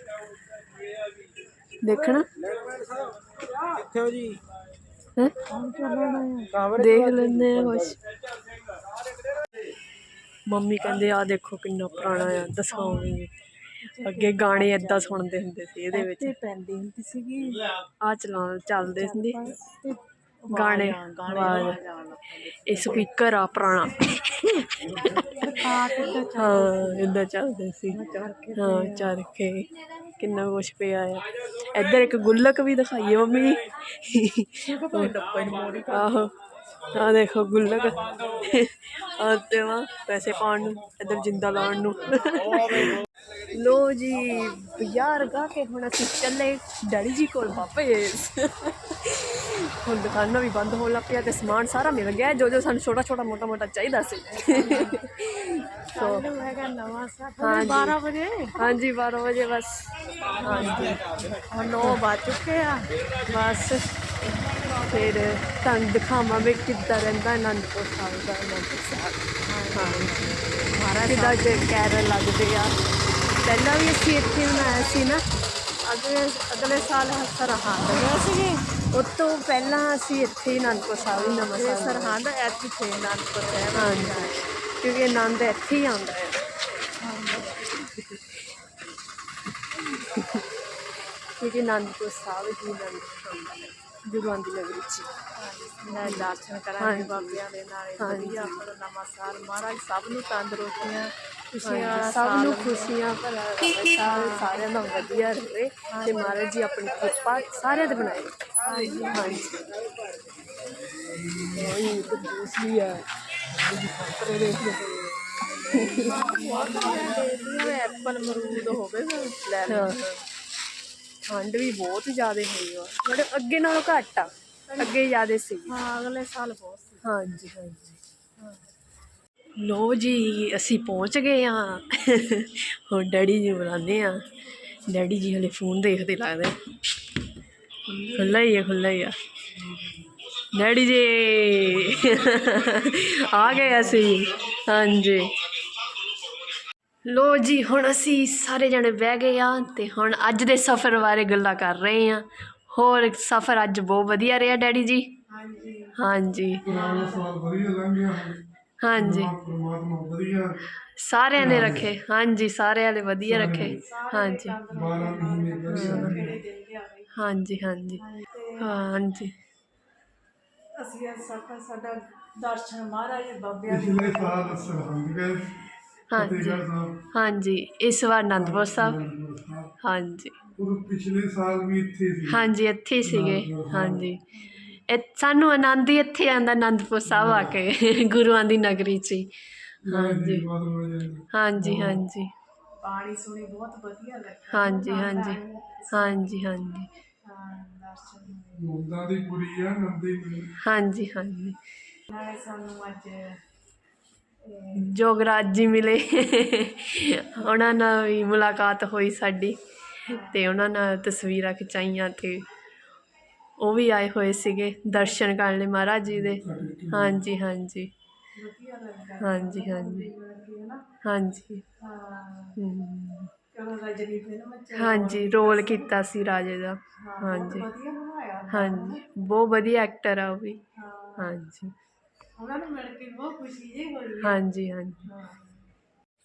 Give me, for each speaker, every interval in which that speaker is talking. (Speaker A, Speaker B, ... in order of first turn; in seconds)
Speaker A: 1.8-2.2, 6.7-8.0, 10.5-13.3, 14.0-16.3, 18.0-19.5, 20.5-21.8, 22.6-25.6, 26.3-28.0, 28.6-29.7, 30.2-35.1, 35.9-36.3, 36.9-56.2, 57.4-57.9, 58.6-61.2, 63.2-63.8, 64.9-70.3, 71.0-72.7, 73.4-75.2, 78.9-82.2, 83.7-86.4, 90.0-90.4, 91.4-95.1, 96.0-97.4, 98.0-98.6, 101.6-108.4, 108.9-109.6, 111.4-113.0, 113.5-115.0, 115.6-116.3, 119.7-120.0, 121.3-125.8, 127.0-128.0, 129.6-134.2, 134.9-136.5, 138.0-139.2, 140.5-145.4, 147.1-155.1, 155.9-156.7, 158.8-159.3, 160.8-164.6, 165.7-166.2, 167.1-168.0, 168.6-169.3, 176.1-179.0, 179.8-180.4, 182.3-189.3, 189.8-190.4, 191.3-192.3, 194.5-195.4, 195.9-196.9, 200.6-201.6, 204.7-212.4, 213.6-217.9, 219.2-220.1, 221.0-221.6, 222.6-223.3, 224.7-227.7, 228.5-230.6, 231.2-231.7, 234.2-235.0
Speaker B: 3.9-4.3, 5.5-6.7, 12.7-13.2, 13.8-15.2, 15.9-17.7, 18.9-23.1, 25.4-27.1, 27.9-29.2, 34.6-36.2, 54.4-55.0, 55.9-58.7, 60.4-62.9, 69.5-71.6, 75.8-78.7, 81.1-84.4, 87.0-87.8, 95.3-103.0, 103.7-104.7, 105.9-106.4, 108.6-109.6, 115.7-120.2, 125.7-127.0, 155.3-156.0, 156.7-157.3, 163.8-167.1, 168.0-168.7, 170.8-174.7, 192.8-196.3, 197.2-198.7, 202.1-203.4, 204.4-204.9, 210.1-210.4, 218.3-220.8, 221.8-222.6, 223.5-226.0, 227.0-229.0, 230.8-231.3, 232.3-234.4, 235.0-235.6
Speaker C: 156.6-158.4, 158.9-160.6, 161.4-161.9, 163.2-163.8, 164.7-166.4, 173.7-177.0, 178.3-179.7, 180.6-182.5, 183.0-184.1, 187.1-187.6, 189.8-192.0, 198.6-200.5, 216.3-217.2